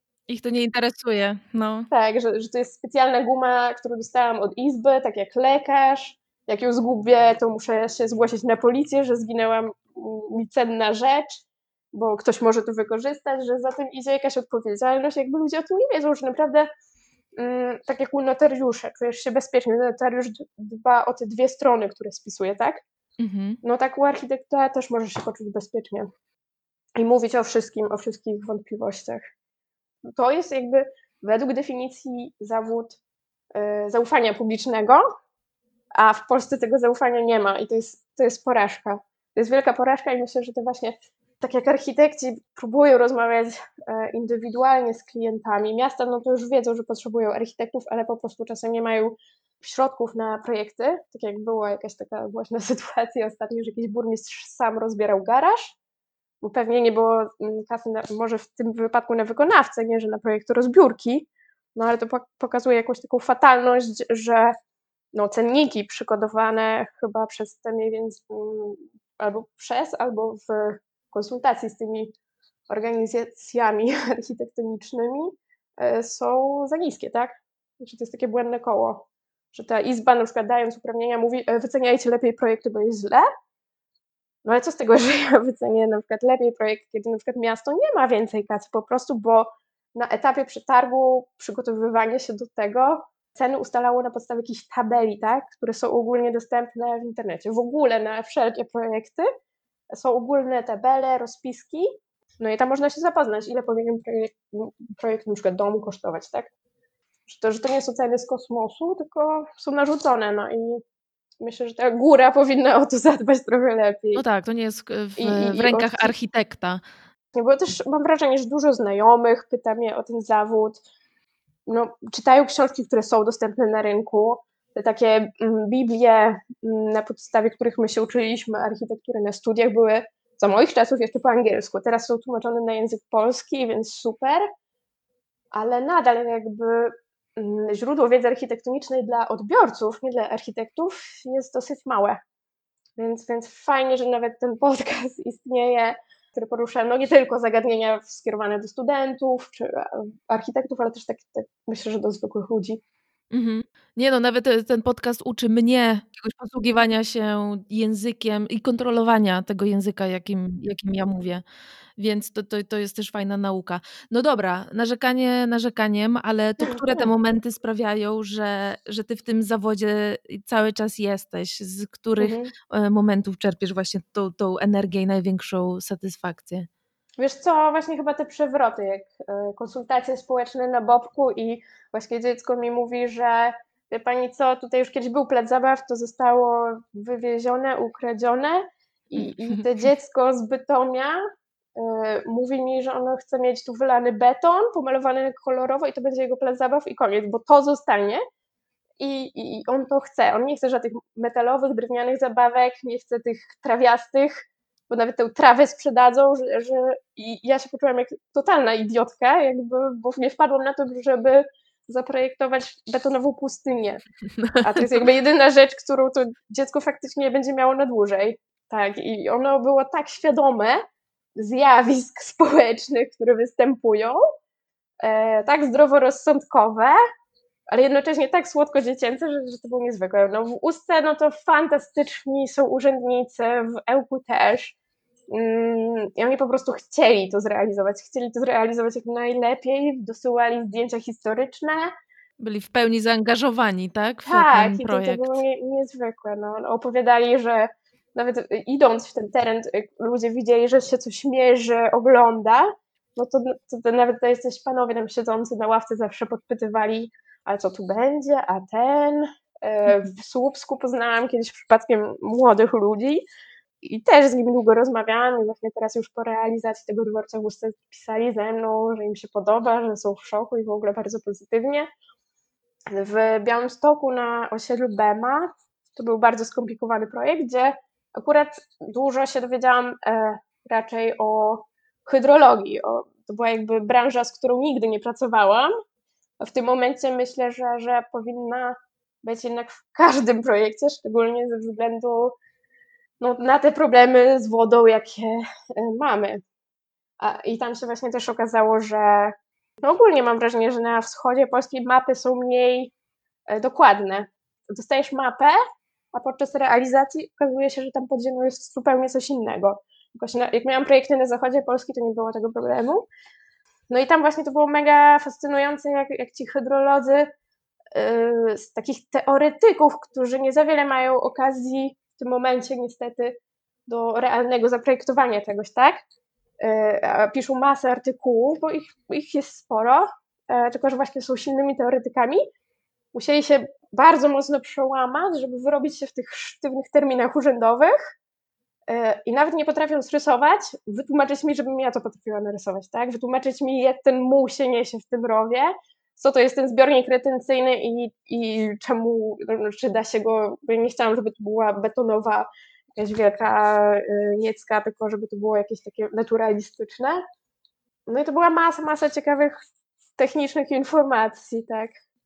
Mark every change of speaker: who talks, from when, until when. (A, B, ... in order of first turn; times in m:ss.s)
0:00.3-0:01.9 A
0:01.9-0:16.7 B
0:17.4-0:22.8 B
0:23.2-0:23.6 A
0:23.6-0:26.1 B
0:27.0-0:29.2 B
0:30.1-0:33.0 B
0:33.5-0:35.0 B
0:35.9-0:55.8 B
0:56.4-1:04.5 B
1:05.1-1:12.1 B
1:12.7-1:23.2 B
1:24.4-1:39.3 B
1:39.9-1:41.8 B
1:42.4-1:46.5 B
1:47.3-1:50.8 B
1:51.4-1:54.2 B
1:54.1-1:56.8 A
1:55.2-1:56.1 B
1:57.3-2:00.8 B
2:01.7-2:14.4 B
2:15.5-2:22.2 B
2:23.0-2:32.8 B
2:33.3-2:41.4 A
2:42.0-2:56.7 A
2:46.6-2:47.1 B
2:52.2-2:52.5 B
2:57.2-3:11.2 B
3:09.2-3:09.6 A
3:11.8-3:18.2 B
3:19.0-3:34.0 B
3:34.4-3:34.8 A
3:34.6-3:40.8 B
3:41.4-3:44.2 B
3:45.0-3:47.0 B
3:47.7-3:54.8 B
3:55.3-4:01.9 B
4:02.4-4:05.4 A
4:04.2-4:23.2 B
4:23.8-4:31.9 B
4:32.9-4:45.7 B
4:46.4-4:52.3 B
4:53.2-4:56.4 B
4:57.2-5:02.9 B
5:03.5-5:05.6 B
5:06.1-5:13.0 B
5:13.9-5:17.3 B
5:17.9-5:23.3 B
5:23.9-5:26.0 B
5:26.6-5:32.4 B
5:33.1-5:37.9 B
5:38.9-5:57.2 B
5:58.1-5:59.5 B
6:00.2-6:01.9 B